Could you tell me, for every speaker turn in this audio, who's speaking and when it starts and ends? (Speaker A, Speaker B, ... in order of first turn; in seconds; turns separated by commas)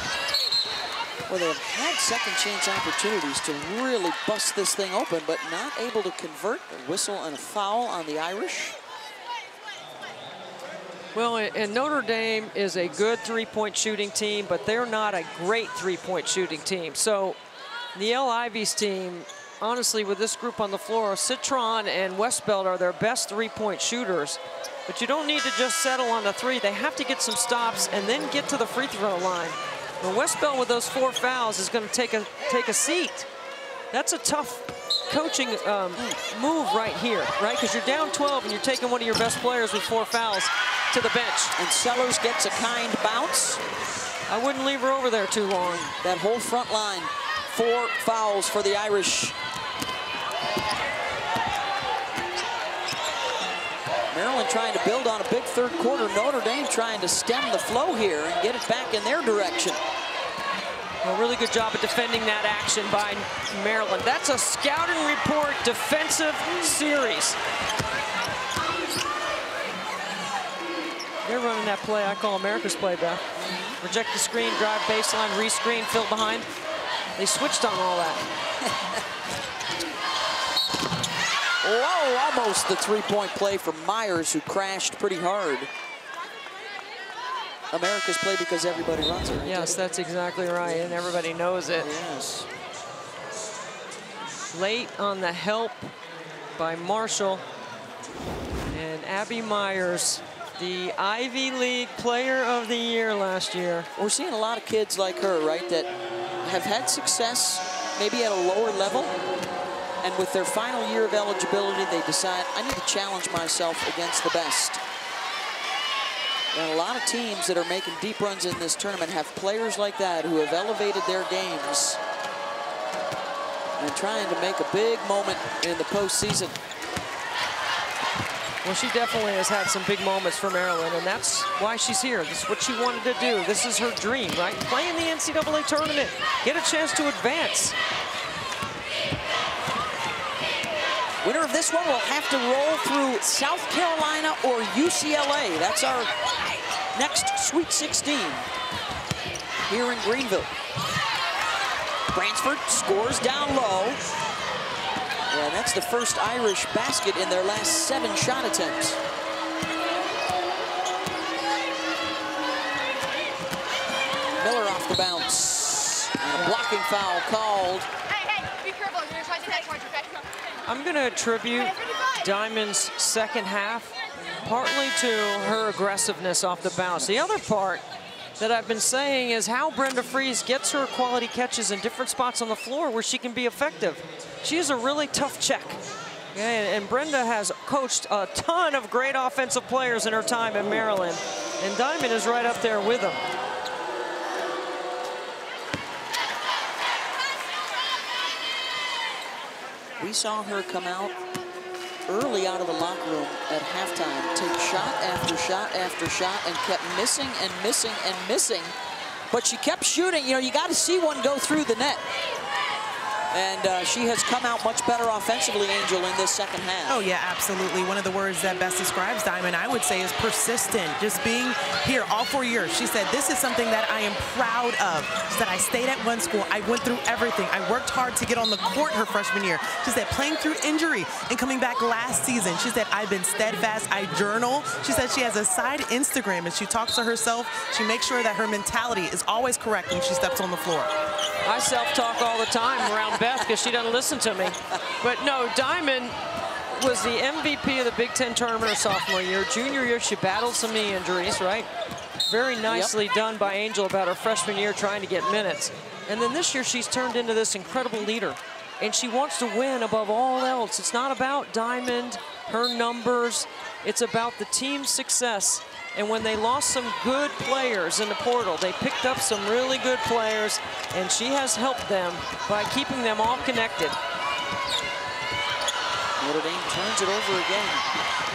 Speaker A: 1.3-8.8, Speaker B: 11.1-17.4, Speaker B: 17.9-33.3, Speaker B: 33.9-41.5, Speaker A: 41.5-43.6, Speaker B: 44.3-45.9, Speaker A: 45.9-49.4, Speaker A: 54.1-59.8, Speaker B: 61.0-67.4, Speaker B: 71.2-73.2, Speaker A: 73.4-73.8, Speaker B: 73.8-76.5, Speaker B: 77.2-78.2, Speaker A: 81.6-85.7, Speaker A: 87.7-89.8, Speaker B: 89.4-91.9, Speaker A: 90.6-91.1, Speaker A: 91.8-92.5, Speaker B: 94.5-95.9, Speaker B: 96.6-97.4, Speaker B: 98.7-103.9, Speaker A: 104.0-105.9, Speaker A: 106.4-109.2, Speaker A: 110.0-114.8, Speaker A: 116.5-122.0, Speaker A: 123.8-126.6, Speaker B: 128.6-137.8, Speaker A: 141.2-146.1, Speaker A: 146.9-148.5, Speaker A: 149.7-150.5, Speaker A: 152.1-154.0, Speaker A: 155.3-159.0, Speaker A: 164.4-167.9, Speaker B: 170.7-173.9, Speaker B: 174.4-177.8, Speaker B: 178.4-185.8, Speaker B: 186.3-193.2, Speaker A: 200.0-201.2, Speaker A: 202.1-208.8, Speaker A: 209.3-212.0, Speaker A: 213.3-217.0, Speaker C: 216.9-240.9, Speaker B: 241.4-246.2, Speaker B: 246.7-251.7, Speaker B: 252.3-274.0, Speaker A: 252.7-252.9, Speaker A: 276.2-277.9